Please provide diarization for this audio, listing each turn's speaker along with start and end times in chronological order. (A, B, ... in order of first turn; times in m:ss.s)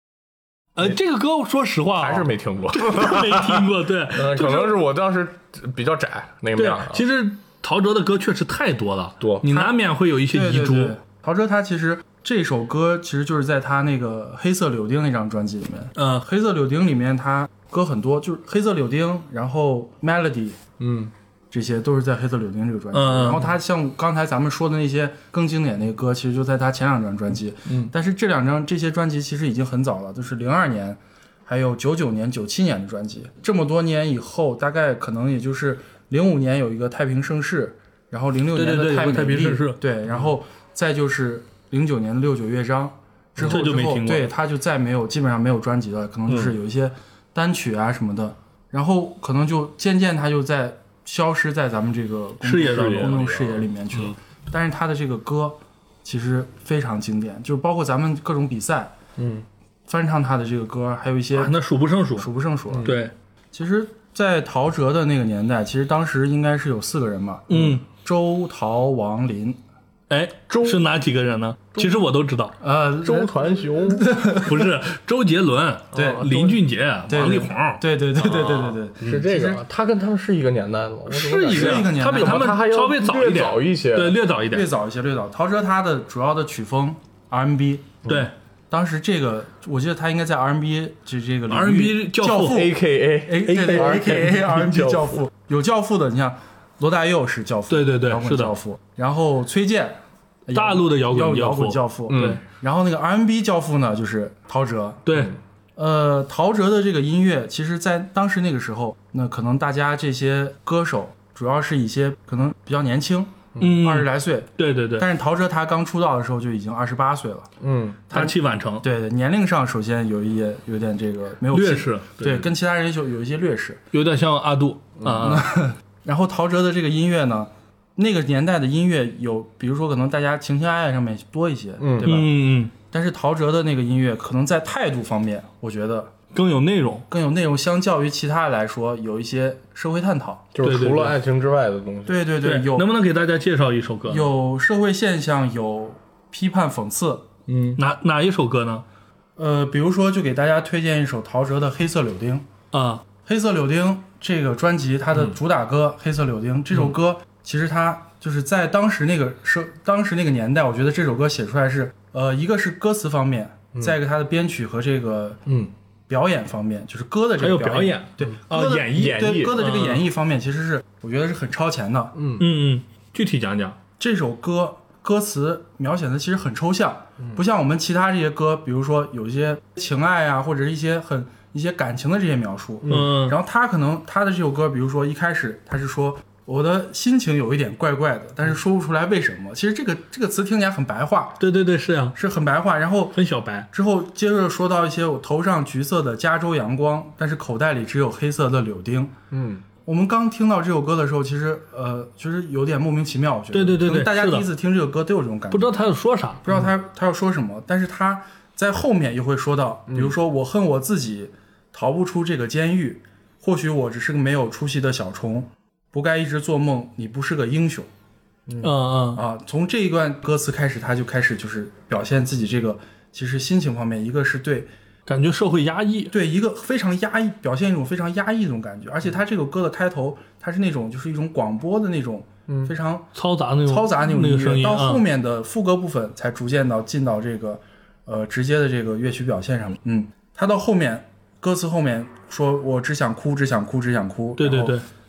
0:00.8-0:04.8 A
0:02.0-0:07.0 B
0:06.6-0:11.0 A
0:09.2-0:09.5 B
0:10.3-0:20.6 C
0:16.0-0:16.2 A
0:20.8-0:21.1 B
0:21.5-0:58.9 C
0:22.9-0:23.4 A
0:38.5-0:39.8 A
0:43.4-0:44.3 A
0:46.3-0:46.6 B
0:52.4-0:53.2 A
0:52.6-0:54.1 B
0:59.2-0:59.4 B
0:59.9-1:01.5 C
1:01.3-1:02.3 A
1:02.2-1:03.0 C
1:02.7-1:03.0 B
1:02.8-1:03.1 A
1:03.5-1:09.6 C
1:07.5-1:07.8 A
1:10.1-1:12.6 A
1:10.5-1:10.8 B
1:12.6-1:14.5 C
1:13.0-1:14.2 B
1:14.3-1:17.8 A
1:15.9-1:16.5 C
1:15.9-1:16.5 B
1:17.1-1:19.6 C
1:18.2-1:24.2 B
1:21.1-1:24.7 A
1:21.5-1:22.6 C
1:24.5-1:28.0 C
1:28.1-1:28.3 A
1:28.7-1:45.1 C
1:31.5-1:32.7 A
1:32.4-1:35.3 B
1:33.5-1:33.9 A
1:37.7-1:38.6 A
1:40.5-1:42.4 A
1:42.1-1:42.4 B
1:45.1-1:45.4 A
1:45.8-1:57.5 C
1:53.6-1:55.1 A
1:57.6-1:58.0 B
1:58.1-2:03.8 C
1:58.1-1:58.8 A
2:01.5-2:02.4 A
2:03.9-2:05.5 A
2:05.2-2:12.3 C
2:11.8-2:12.2 B
2:12.0-2:12.7 A
2:12.9-2:16.1 C
2:16.3-2:17.0 A
2:17.1-2:20.5 C
2:20.5-2:22.2 B
2:20.6-2:21.2 A
2:22.1-2:22.9 C
2:22.4-2:24.3 A
2:24.1-2:27.3 C
2:27.5-2:27.8 B
2:27.8-2:28.8 A
2:29.4-2:32.4 C
2:32.7-2:33.0 A
2:33.3-2:45.4 C
2:45.5-2:45.7 B
2:46.1-2:52.2 C
2:47.4-2:50.0 A
2:48.9-2:49.6 B
2:52.2-2:52.4 B
2:52.4-2:53.8 A
2:54.0-3:11.4 C
3:02.9-3:03.4 A
3:11.4-3:12.2 A
3:12.2-3:13.2 C
3:13.1-3:13.7 A
3:13.7-3:19.1 C
3:19.3-3:19.6 B
3:19.8-3:25.8 C
3:23.5-3:24.5 A
3:25.5-3:26.4 A
3:26.4-3:37.9 C
3:29.9-3:30.2 B
3:38.5-3:44.7 C
3:38.6-3:39.2 A
3:45.1-3:46.1 A
3:46.1-3:53.1 C
3:52.5-3:52.7 B
3:53.1-3:55.0 A
3:53.6-4:04.8 C
4:04.4-4:04.8 A